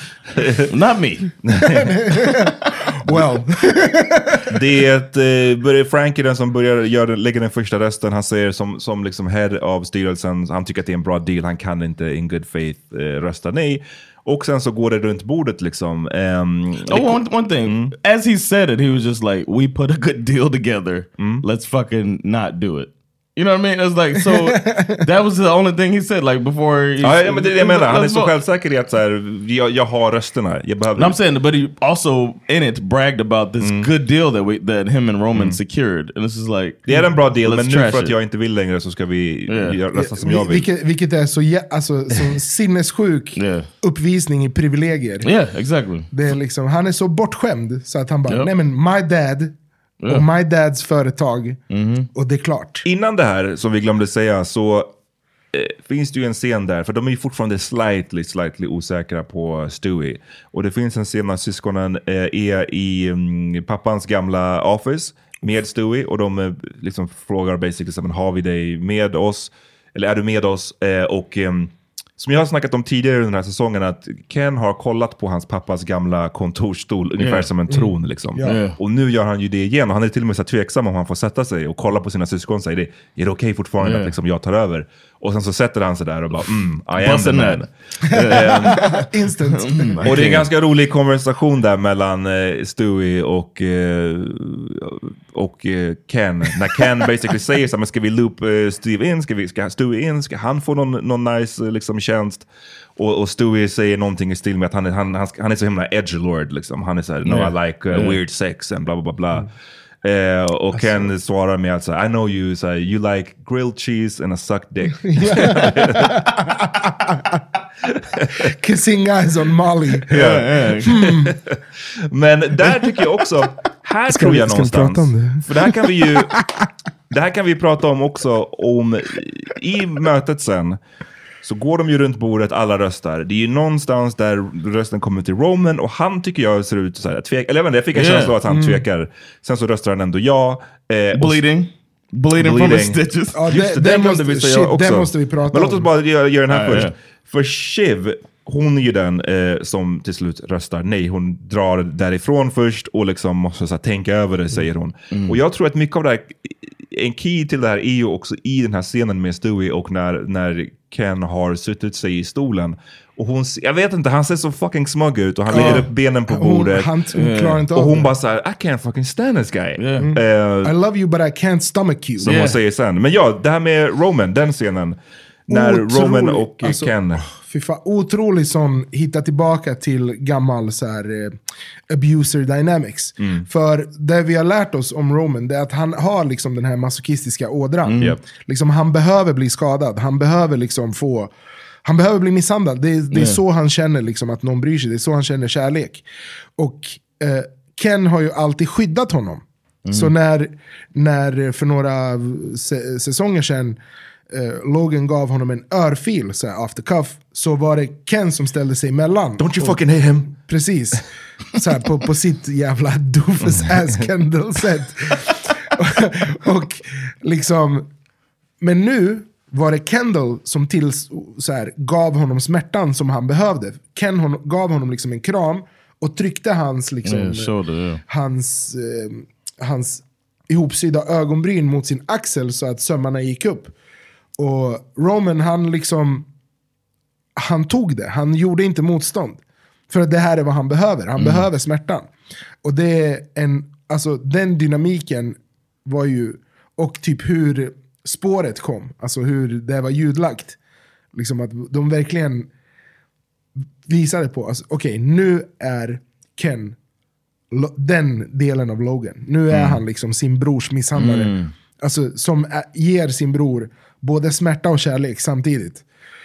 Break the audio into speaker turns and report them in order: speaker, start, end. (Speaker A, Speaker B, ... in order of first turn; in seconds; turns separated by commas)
Speaker A: 0.3-0.6, Speaker B: 0.7-1.3, Speaker A: 1.4-1.9, Speaker C: 1.6-4.5, Speaker A: 4.5-17.9, Speaker B: 16.9-28.3, Speaker A: 21.2-21.4, Speaker C: 24.2-25.0, Speaker A: 27.0-31.2, Speaker B: 31.0-38.1, Speaker A: 33.6-33.9, Speaker A: 35.3-35.6, Speaker A: 36.9-40.6, Speaker B: 39.5-39.8, Speaker C: 40.0-45.3, Speaker B: 43.4-43.7, Speaker B: 45.2-46.1, Speaker C: 46.1-49.5, Speaker C: 50.1-51.6, Speaker B: 51.7-52.1, Speaker C: 52.1-52.9, Speaker A: 52.8-54.9, Speaker A: 55.5-87.7, Speaker B: 77.2-77.5, Speaker C: 77.7-78.6, Speaker B: 78.4-78.8, Speaker B: 83.8-84.1, Speaker B: 87.0-88.9, Speaker A: 88.2-88.8, Speaker C: 88.4-90.1, Speaker B: 89.5-90.5, Speaker A: 90.0-102.5, Speaker A: 103.0-109.5, Speaker B: 107.2-108.2, Speaker A: 110.0-116.1, Speaker C: 110.7-111.1, Speaker C: 115.0-117.4, Speaker B: 115.3-115.9, Speaker C: 118.4-120.2, Speaker A: 120.1-121.5, Speaker B: 120.1-120.9, Speaker C: 120.8-121.3, Speaker A: 122.1-126.3, Speaker C: 124.1-126.7, Speaker A: 127.1-130.8, Speaker A: 131.4-141.4, Speaker B: 137.9-138.3, Speaker C: 138.4-138.8, Speaker B: 141.1-143.4, Speaker A: 142.3-166.9, Speaker C: 143.3-145.8, Speaker B: 146.5-146.9, Speaker B: 155.1-155.4, Speaker C: 165.5-168.1, Speaker B: 165.5-165.8, Speaker B: 167.1-167.7, Speaker A: 167.7-170.7, Speaker B: 169.8-170.1, Speaker C: 170.0-172.4, Speaker A: 172.2-175.0, Speaker B: 172.2-172.6, Speaker A: 175.5-177.2, Speaker C: 175.5-181.4, Speaker C: 181.9-191.3, Speaker A: 183.2-183.4, Speaker B: 187.8-188.2, Speaker C: 191.8-196.0, Speaker B: 193.1-193.4, Speaker C: 196.6-203.8, Speaker B: 199.8-200.1, Speaker C: 204.3-209.8, Speaker A: 209.4-210.3, Speaker C: 210.3-217.9, Speaker A: 213.5-213.8, Speaker C: 218.6-227.5, Speaker B: 227.0-228.0, Speaker C: 228.1-233.7, Speaker C: 234.4-236.3, Speaker C: 237.4-242.1, Speaker B: 241.2-241.5, Speaker C: 242.6-250.6, Speaker C: 251.1-252.5, Speaker C: 253.9-256.8, Speaker C: 257.5-265.8, Speaker B: 259.5-259.8, Speaker B: 260.9-261.5